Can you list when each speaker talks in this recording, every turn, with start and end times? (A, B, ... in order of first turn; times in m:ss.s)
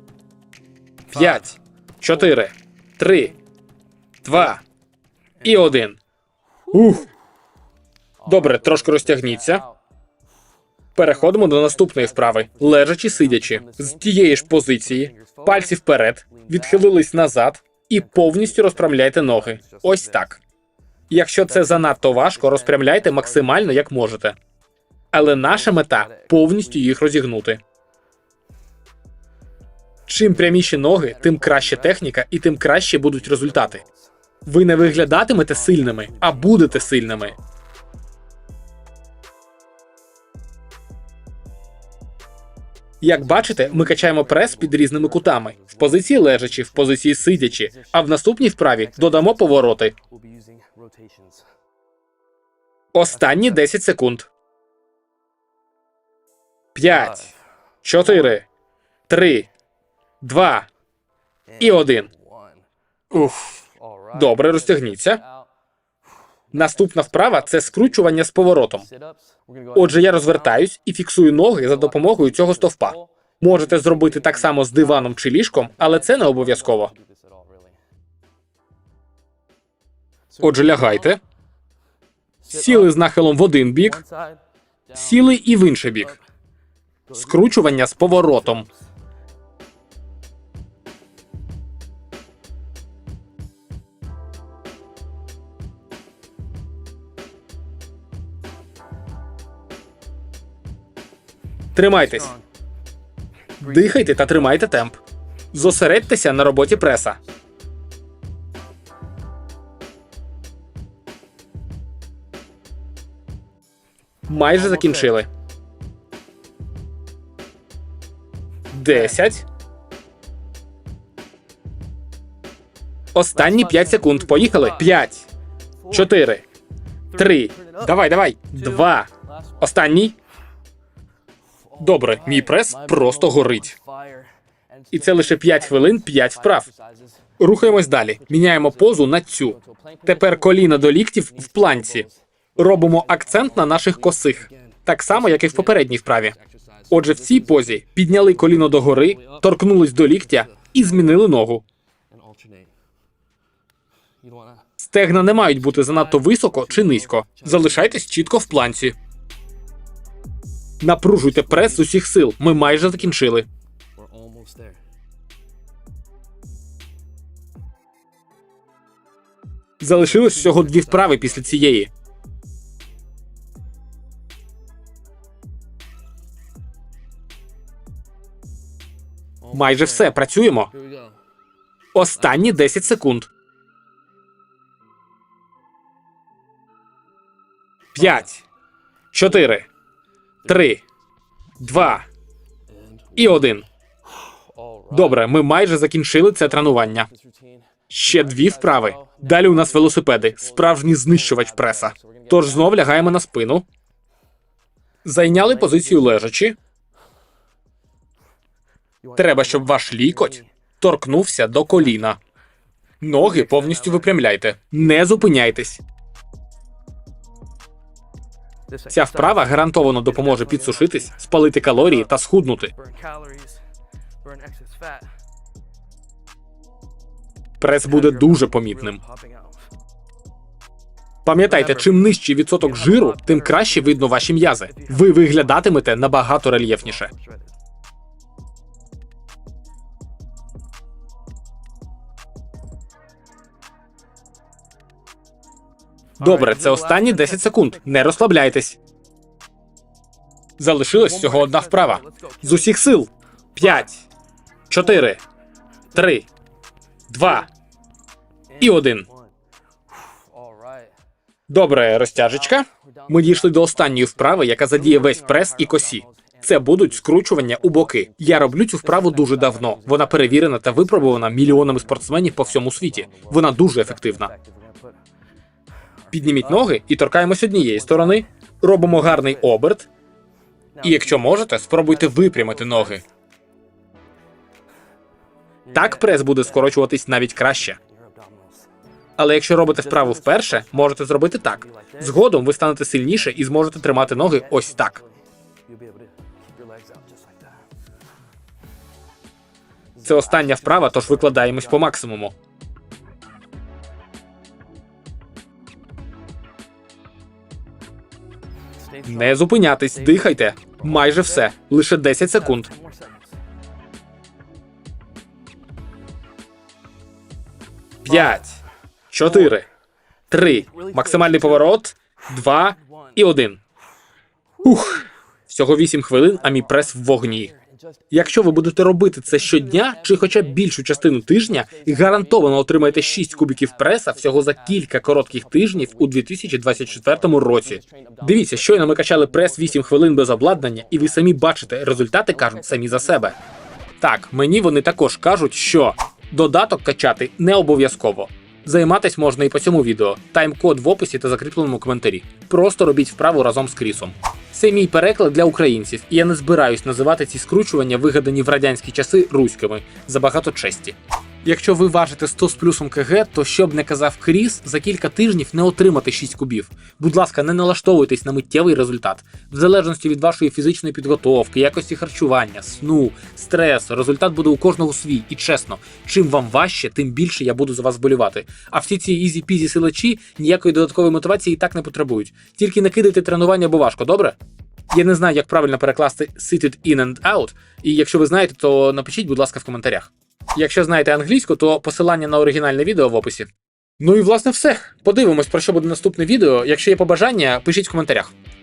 0:01.1-0:03.4 A
0:01.1-0:01.5 B
0:04.2-0:04.6 A
0:05.4-0:05.8 B
0:05.4-0:06.0 A
0:06.7-0:07.1 A
0:08.2-0:09.8 B
0:08.3-0:09.6 A
0:11.0-0:20.4 A
0:11.0-0:17.2 B
0:18.0-0:20.4 B
0:21.1-0:24.4 A
0:21.4-0:23.9 B
0:25.1-0:27.6 A
0:25.2-0:27.1 B
0:30.1-0:33.8 A
0:30.5-0:34.1 B
0:34.5-0:37.3 A
0:35.0-0:37.4 B
0:43.0-0:50.0 A
0:43.1-0:48.1 B
0:48.7-0:51.5 B
0:52.9-0:54.3 A
0:53.1-0:53.6 B
0:56.8-0:58.5 A
0:56.8-0:57.4 B
0:58.0-0:58.3 B
0:59.1-0:59.5 A
1:00.2-1:00.7 A
1:01.5-1:02.6 B
1:01.6-1:02.1 A
1:03.1-1:05.2 A
1:03.7-1:05.5 B
1:06.5-1:08.1 B
1:06.5-1:08.9 A
1:08.7-1:10.7 B
1:09.8-1:16.9 A
1:11.5-1:17.8 B
1:20.3-1:21.2 B
1:20.4-1:21.2 A
1:22.4-1:23.0 B
1:22.5-1:24.0 A
1:23.7-1:26.2 B
1:24.9-1:26.2 A
1:27.1-1:28.7 B
1:27.1-1:28.7 A
1:41.8-1:42.3 A
1:42.0-1:42.4 B
1:43.6-1:44.9 B
1:43.6-1:45.0 A
1:45.5-1:47.2 A
1:45.6-1:47.0 B
1:54.3-1:55.3 A
1:54.5-1:55.2 B
1:58.7-1:59.4 A
1:58.9-1:59.3 B
2:03.1-2:05.3 A
2:03.3-2:05.0 B
2:05.8-2:06.2 B
2:05.9-2:06.4 A
2:07.1-2:08.0 B
2:07.2-2:09.1 A
2:08.6-2:09.8 B
2:09.6-2:10.2 A
2:11.6-2:29.5 B
2:11.8-2:13.8 A
2:14.9-2:16.7 A
2:17.4-2:22.1 A
2:22.6-2:26.4 A
2:26.9-2:31.6 A
2:30.1-2:31.2 B
2:32.1-2:32.7 B
2:34.2-2:34.7 B
2:34.8-2:39.0 A
2:35.3-2:38.3 B
2:40.8-2:43.5 A
2:41.2-2:41.9 B
2:42.8-2:43.1 B
2:44.0-2:44.8 B
2:49.8-2:51.9 A
2:50.0-2:51.8 B
2:59.4-3:00.2 B
2:59.5-3:00.7 A
3:00.7-3:01.2 B
3:01.9-3:03.3 A
3:02.2-3:02.6 B
3:07.9-3:08.4 A
3:09.1-3:09.7 A
3:10.5-3:10.8 A
3:11.6-3:12.1 A
3:12.7-3:13.6 B
3:13.2-3:13.6 A
3:14.3-3:15.3 B
3:14.9-3:17.1 A
3:16.4-3:23.2 B
3:17.9-3:23.6 A
3:25.0-3:26.6 A
3:25.2-3:26.2 B
3:29.0-3:30.5 B
3:29.2-3:32.2 A
3:33.0-3:35.8 A
3:33.1-3:34.2 B
3:38.7-3:42.1 B
3:38.9-3:42.7 A
3:42.7-3:43.6 B
3:44.2-3:45.1 B
3:47.6-3:49.0 A
3:47.8-3:49.7 B
3:51.2-3:57.1 A
3:51.4-3:55.7 B
3:56.6-3:57.5 B
4:06.2-4:07.8 B
4:06.2-4:08.8 A
4:10.6-4:14.0 A
4:10.9-4:12.9 B
4:14.7-4:15.2 A
4:15.9-4:16.3 A
4:17.1-4:17.5 A
4:18.5-4:19.3 B
4:18.6-4:19.1 A
4:20.2-4:20.9 B
4:21.5-4:34.3 A
4:22.1-4:35.0 B
4:36.1-4:36.8 B
4:36.1-4:39.9 A
4:37.4-4:39.6 B
4:40.8-4:43.1 B
4:40.8-4:43.0 A
4:45.7-4:46.8 B
4:45.7-4:47.8 A
4:47.6-4:48.7 B
4:49.2-4:55.0 A
4:49.7-4:57.6 B
5:00.0-5:01.9 B
5:00.0-5:02.4 A
5:08.8-5:11.5 B
5:09.0-5:12.7 A
5:12.2-5:13.4 B
5:18.0-5:18.6 A
5:18.1-5:18.4 B
5:19.1-5:19.7 A
5:19.2-5:19.6 B
5:20.3-5:23.6 A
5:20.4-5:21.8 B
5:22.8-5:23.2 B
5:24.6-5:25.0 B
5:24.6-5:27.5 A
5:26.1-5:43.4 B
5:28.1-5:43.4 A
5:44.0-6:24.4 A
6:24.9-6:38.3 A